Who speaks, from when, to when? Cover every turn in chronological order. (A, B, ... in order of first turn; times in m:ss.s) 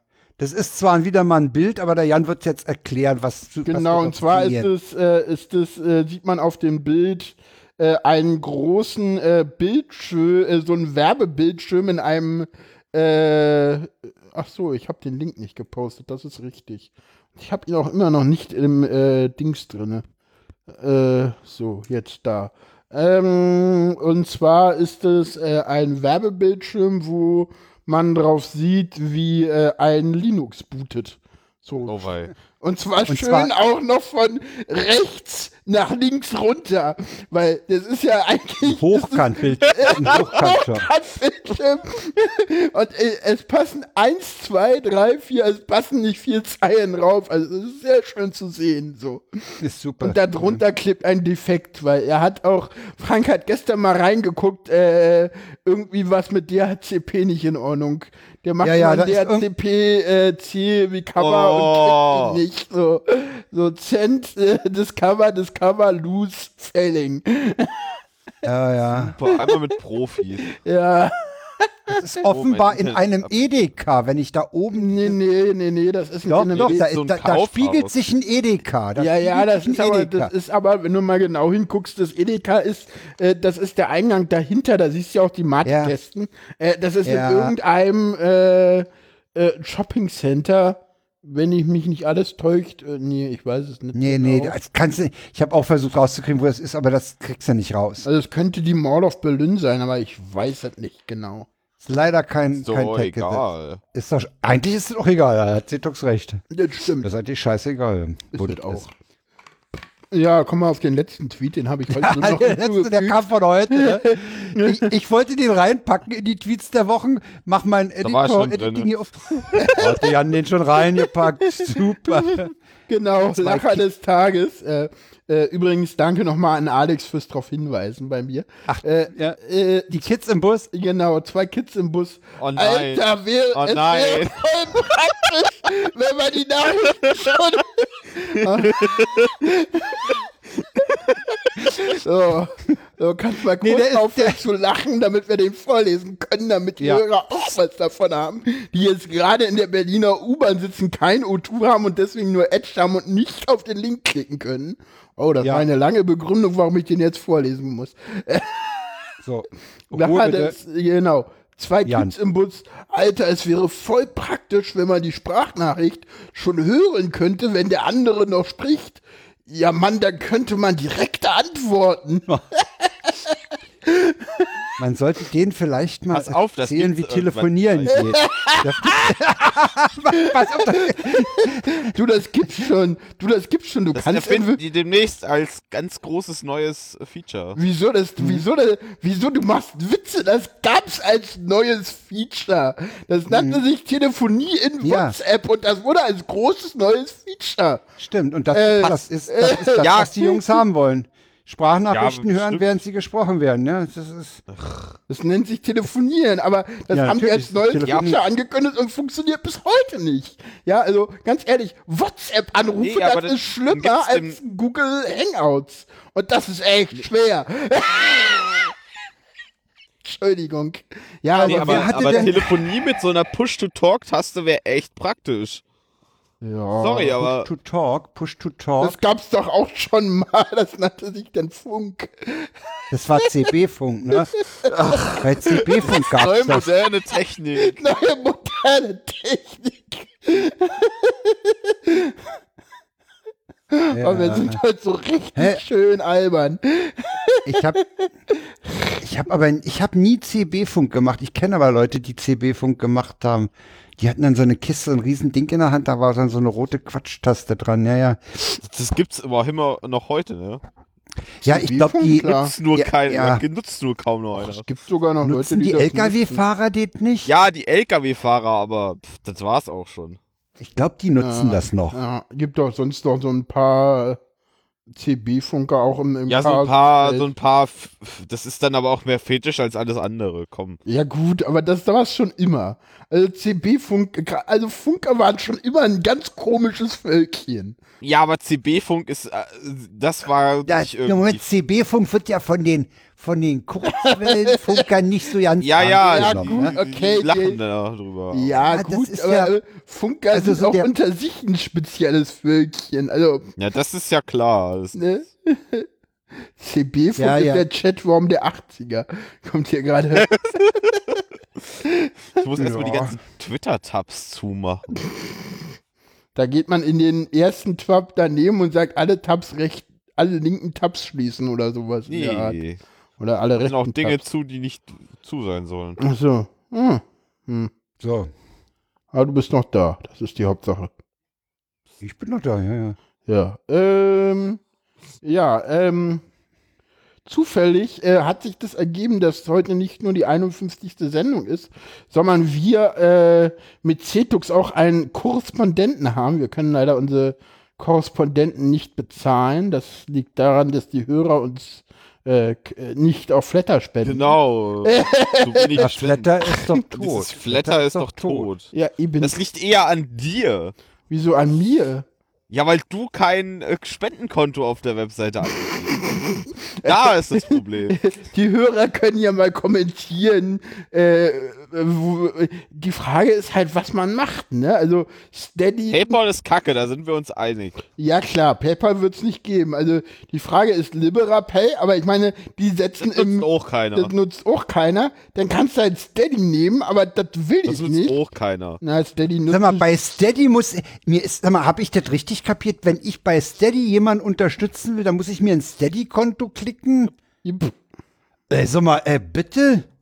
0:00.4-0:04.7 A
0:03.6-0:20.0 B
0:20.7-0:31.9 B
0:31.9-0:32.3 C
0:32.6-0:49.2 B
0:33.1-0:33.5 A
0:38.6-0:40.8 A
0:39.7-0:40.2 C
0:49.6-0:50.6 A
0:50.0-1:08.0 B
0:58.6-0:59.4 A
1:01.2-1:02.4 C
1:08.4-1:09.1 A
1:08.9-1:10.5 C
1:09.3-1:09.6 B
1:10.5-1:12.0 B
1:11.9-1:15.2 A
1:12.3-1:13.3 C
1:14.7-1:16.9 B
1:16.3-1:20.3 A
1:16.5-1:17.9 C
1:19.0-1:34.6 B
1:25.6-1:25.9 A
1:27.0-1:27.5 A
1:33.9-1:38.0 A
1:38.0-1:41.5 B
1:41.8-1:46.4 A
1:42.6-1:43.8 C
1:46.5-1:47.1 B
1:47.0-1:48.9 A
1:48.3-1:48.9 B
1:50.1-1:54.9 B
1:51.9-2:02.5 A
1:58.0-1:59.4 C
1:59.5-2:00.1 B
2:01.0-2:10.0 B
2:03.4-2:03.8 A
2:08.7-2:09.4 A
2:09.9-2:10.7 A
2:10.7-2:20.2 B
2:12.4-2:14.4 C
2:18.7-2:19.3 C
2:21.6-2:38.8 B
2:23.6-2:24.4 A
2:39.2-2:40.6 A
2:39.9-2:54.5 B
2:41.8-2:42.1 A
2:54.8-3:01.9 A
2:56.1-2:58.1 C
2:57.9-2:59.1 B
3:00.1-3:04.6 B
3:03.9-3:07.6 C
3:07.6-3:17.8 B
3:13.3-3:13.6 A
3:14.8-3:15.2 A
3:18.0-3:24.4 A
3:18.5-3:20.4 B
3:19.8-3:20.1 C
3:21.9-3:22.6 C
3:24.5-3:24.9 C
3:25.1-3:38.7 B
3:26.9-3:28.2 A
3:27.8-3:28.2 C
3:32.8-3:34.4 C
3:40.0-3:42.4 B
3:41.4-3:45.6 C
3:41.4-3:42.5 A
3:46.4-3:47.1 B
3:46.8-3:47.5 C
3:47.2-3:49.0 A
3:48.8-3:52.5 B
3:52.9-3:54.3 A
3:54.3-3:55.2 B
3:54.7-3:57.7 C
3:55.2-3:56.6 A
3:57.6-4:02.2 B
4:03.7-4:08.9 B
4:03.9-4:04.6 A
4:05.4-4:05.6 A
4:07.4-4:07.8 A
4:09.0-4:18.2 A
4:18.6-4:20.6 C
4:21.4-4:23.4 A
4:21.4-4:22.5 B
4:22.3-4:24.6 C
4:24.3-4:26.4 B
4:25.2-4:27.3 A
4:27.2-4:30.2 C
4:30.6-4:32.0 A
4:31.2-4:34.2 B
4:34.9-4:37.2 B
4:36.3-4:40.8 C
4:40.8-4:47.8 B
4:48.0-4:51.4 C
4:50.6-4:56.7 A
4:53.9-4:54.8 B
4:55.6-4:58.6 C
4:56.1-4:57.6 B
4:58.3-5:03.5 B
4:58.7-4:59.5 A
5:00.3-5:00.9 A
5:03.6-5:05.0 C
5:04.9-5:05.9 B
5:06.6-5:10.3 B
5:07.2-5:07.6 A
5:10.2-5:11.0 C
5:11.8-5:12.1 B
5:12.4-5:14.9 C
5:12.6-5:13.2 A
5:16.3-5:22.6 B
5:22.1-5:22.8 C
5:23.2-5:24.2 B
5:23.6-5:26.0 C
5:26.0-5:27.7 B
5:28.0-5:28.3 A
5:29.1-5:30.9 B
5:32.0-5:33.0 A
5:33.3-5:34.6 B
5:35.2-5:36.2 B
5:37.2-5:55.8 B
5:54.0-6:00.7 C
5:55.8-5:58.5 A
5:58.7-5:59.4 B
6:01.1-6:02.0 B
6:02.5-6:06.1 C
6:05.6-6:16.2 B
6:06.8-6:08.0 C
6:15.9-6:17.8 C
6:18.0-6:28.2 B
6:23.0-6:24.1 C
6:27.6-6:28.8 C
6:28.8-6:29.9 B
6:29.5-6:37.1 A
6:37.4-6:37.7 B
6:38.5-6:39.9 A